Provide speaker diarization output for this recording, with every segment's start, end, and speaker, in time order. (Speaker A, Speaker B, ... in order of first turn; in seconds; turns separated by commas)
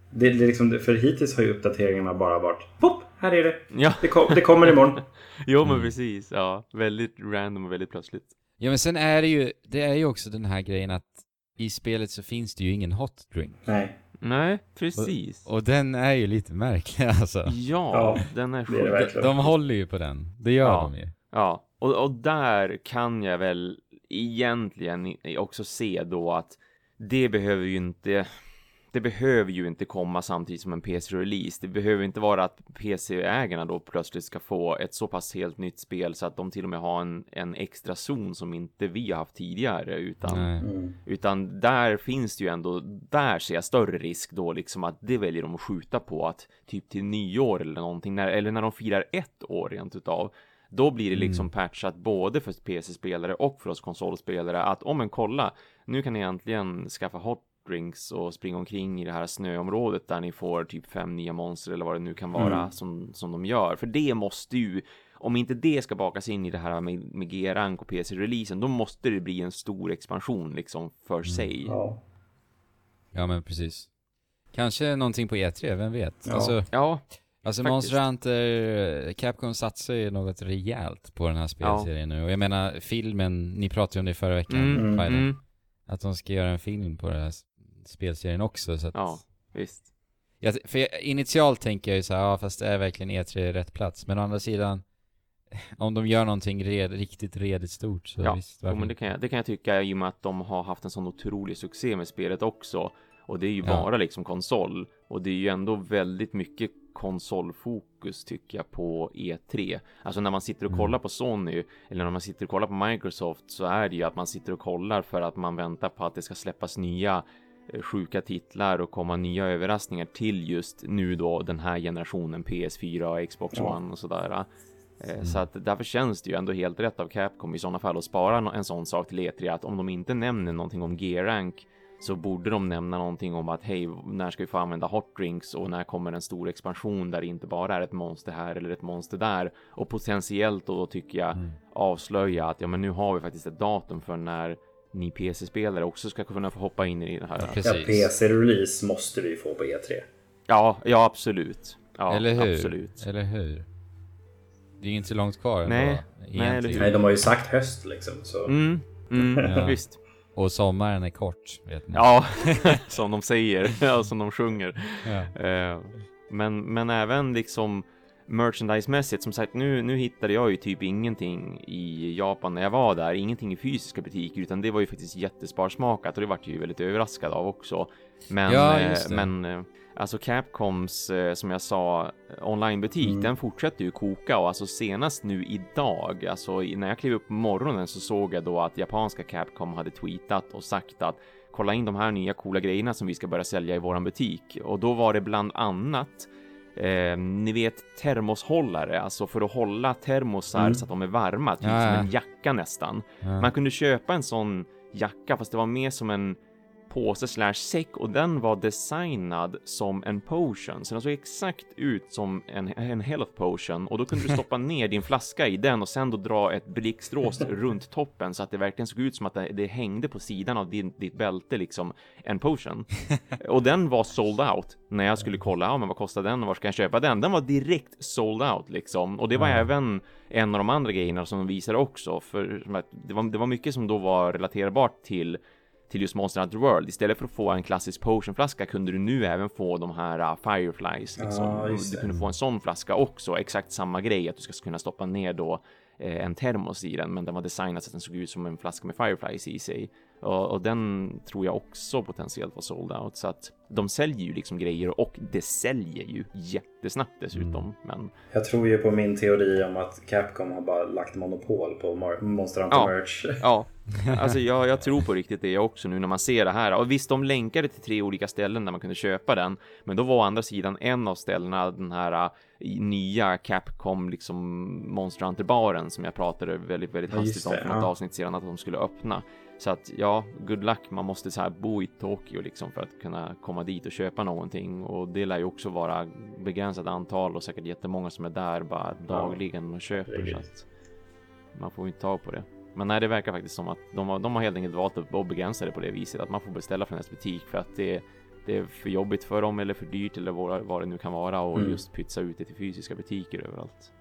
Speaker A: 0.1-5.0, Speaker B: 3.7-8.3, Speaker C: 5.6-5.9, Speaker C: 8.6-13.6, Speaker A: 13.7-13.9, Speaker B: 14.2-15.4, Speaker C: 14.9-17.5, Speaker B: 17.4-19.3, Speaker A: 17.9-19.5, Speaker C: 18.9-21.1, Speaker B: 20.6-28.3, Speaker B: 28.9-71.8, Speaker C: 40.2-40.6, Speaker A: 40.6-41.0, Speaker C: 51.1-51.5, Speaker A: 62.4-62.6, Speaker A: 71.6-72.0, Speaker C: 73.1-73.9, Speaker C: 74.5-85.3, Speaker A: 76.2-76.6, Speaker B: 76.7-78.0, Speaker B: 81.6-81.9, Speaker B: 84.5-85.4, Speaker A: 84.7-85.1, Speaker C: 85.8-89.2, Speaker B: 88.9-89.9, Speaker C: 90.4-94.8, Speaker C: 95.5-98.9, Speaker B: 98.2-124.5, Speaker B: 125.0-147.6, Speaker C: 147.4-148.1, Speaker A: 147.6-150.0, Speaker B: 150.5-153.0, Speaker C: 152.1-153.7, Speaker C: 154.8-157.0, Speaker B: 155.6-157.0, Speaker A: 156.8-158.6, Speaker B: 158.5-160.0, Speaker A: 159.1-159.7, Speaker C: 159.4-159.8, Speaker C: 160.3-162.7, Speaker B: 161.9-206.4, Speaker C: 165.0-165.3, Speaker C: 178.5-179.3, Speaker A: 183.0-183.3, Speaker A: 200.6-200.8, Speaker C: 201.6-202.1, Speaker C: 203.2-203.5, Speaker B: 206.9-258.1, Speaker C: 229.4-229.7, Speaker A: 241.2-242.0, Speaker C: 257.3-257.6, Speaker A: 258.3-263.4, Speaker B: 262.7-290.6, Speaker C: 264.0-264.4, Speaker A: 277.1-277.9, Speaker A: 289.1-290.5, Speaker B: 291.5-303.9, Speaker A: 301.5-301.8